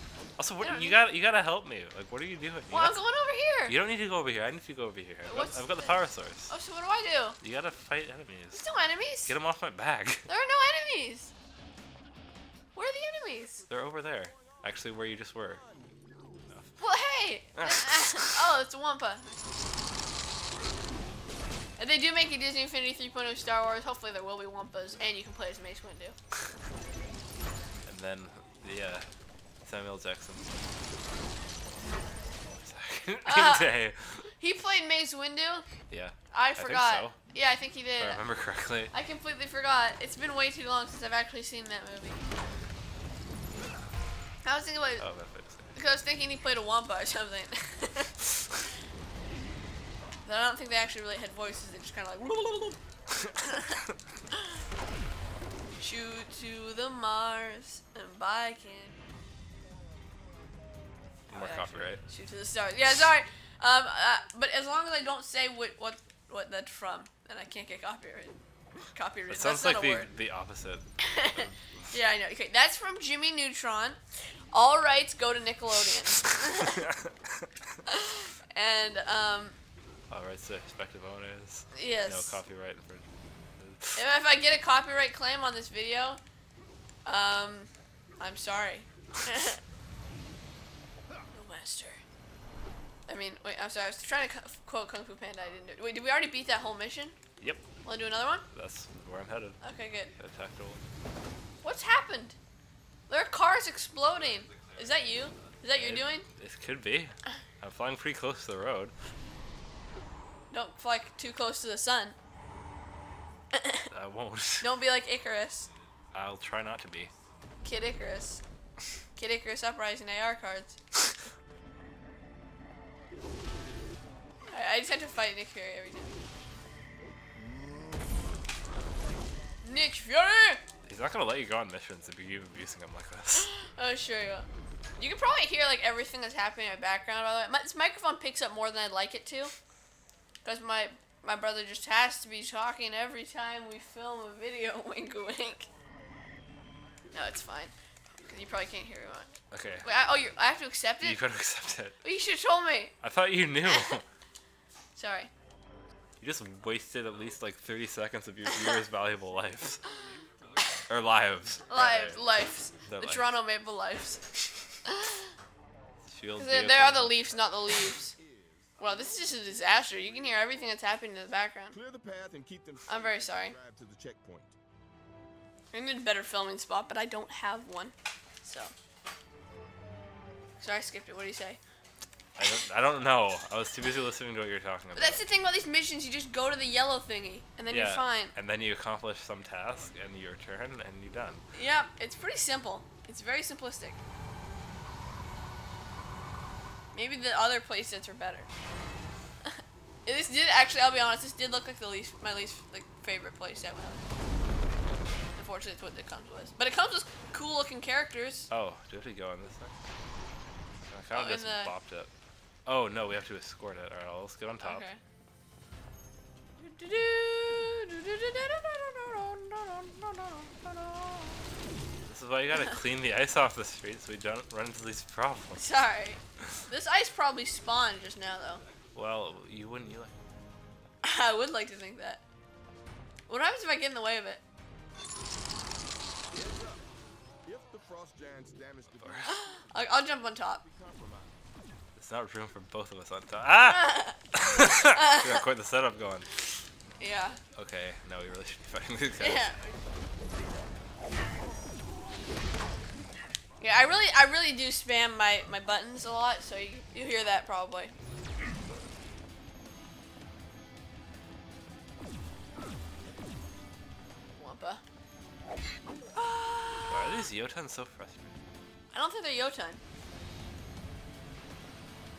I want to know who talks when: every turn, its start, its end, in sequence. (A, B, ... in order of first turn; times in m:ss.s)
0:00.4-0:03.0 A
0:00.6-0:01.0 B
0:02.7-0:03.8 B
0:03.7-0:06.5 A
0:05.2-0:07.4 B
0:07.4-0:08.6 A
0:08.5-0:09.3 B
0:09.3-0:10.3 A
0:10.3-0:11.3 B
0:12.7-0:13.6 B
0:13.7-0:15.6 A
0:14.1-0:14.8 C
0:15.4-0:16.5 C
0:16.8-0:19.4 B
0:17.6-0:18.4 A
0:21.8-0:26.2 B
0:27.8-0:29.1 A
0:29.6-0:30.5 A
0:32.6-0:34.3 A
0:33.2-0:33.7 B
0:34.4-0:35.6 B
0:35.9-0:37.2 A
0:36.3-0:38.2 B
0:38.0-0:38.9 A
0:38.9-0:42.2 B
0:44.4-0:45.0 B
0:45.0-0:45.7 A
0:45.7-0:48.2 B
0:50.2-0:52.8 B
0:53.3-0:53.7 B
0:55.8-0:59.0 B
1:01.3-1:08.3 B
1:01.3-1:02.0 A
1:08.9-1:10.1 B
1:09.3-1:11.9 A
1:11.0-1:14.0 B
1:14.5-1:16.9 B
1:17.9-1:19.6 B
1:20.1-1:23.1 A
1:21.7-1:22.4 B
1:23.6-1:24.0 A
1:23.9-1:26.2 B
1:27.0-1:29.6 B
1:31.3-1:32.0 B
1:33.1-1:37.2 B
1:37.4-1:37.6 A
1:37.8-1:38.4 B
1:38.5-1:39.6 A
1:39.6-1:40.1 B
1:40.1-1:40.8 A
1:41.6-1:42.4 B
1:43.1-1:46.2 B
1:44.5-1:44.7 A
1:45.7-1:48.9 A
1:50.5-1:52.2 B
1:53.5-1:53.9 B
1:53.9-1:54.7 A
1:54.6-1:55.7 B
1:56.1-1:57.1 A
1:57.6-1:58.4 B
1:59.2-2:01.0 B
2:04.5-2:06.1 B
2:07.4-2:08.1 C
2:09.6-2:10.6 B
2:10.8-2:13.5 A
2:13.4-2:14.5 B
2:15.0-2:19.5 B
2:20.4-2:25.7 B
2:27.1-2:29.3 B
2:29.5-2:29.9 A
2:29.8-2:31.2 B
2:31.0-2:32.0 A
2:32.0-2:32.9 B
2:33.0-2:34.0 A
2:34.9-2:35.3 B
2:36.2-2:39.8 A
2:40.9-2:42.2 A
2:41.7-2:45.2 B
2:42.8-2:43.2 A
2:46.1-2:47.2 A
2:46.4-2:48.1 B
2:47.3-2:50.5 C
2:48.8-2:51.8 B
2:51.7-2:54.6 C
2:52.9-2:53.5 B
2:55.7-2:58.7 B
3:00.6-3:01.6 B
3:02.4-3:05.2 A
3:04.9-3:08.3 B
3:07.7-3:11.4 A
3:11.5-3:14.0 B
3:16.9-3:18.5 B
3:19.4-3:24.0 B
3:25.4-3:28.5 B
3:28.5-3:29.7 A
3:30.8-3:32.1 A
3:31.1-3:31.7 B
3:32.6-3:34.8 A
3:34.6-3:35.0 B
3:36.6-3:41.4 B
3:42.0-3:45.6 A
3:45.6-3:48.6 B
3:48.9-3:50.1 A
3:51.0-3:52.2 B
3:53.3-3:54.4 B
3:56.3-3:56.8 C
3:57.4-4:01.4 C
3:59.2-4:00.6 B
4:02.0-4:06.3 A
4:03.6-4:05.4 B
4:07.0-4:07.4 B
4:07.6-4:09.5 A
4:09.2-4:09.6 B
4:13.6-4:17.9 B
4:24.4-4:24.8 B
4:26.1-4:27.2 B
4:26.9-4:28.3 A
4:28.9-4:29.8 B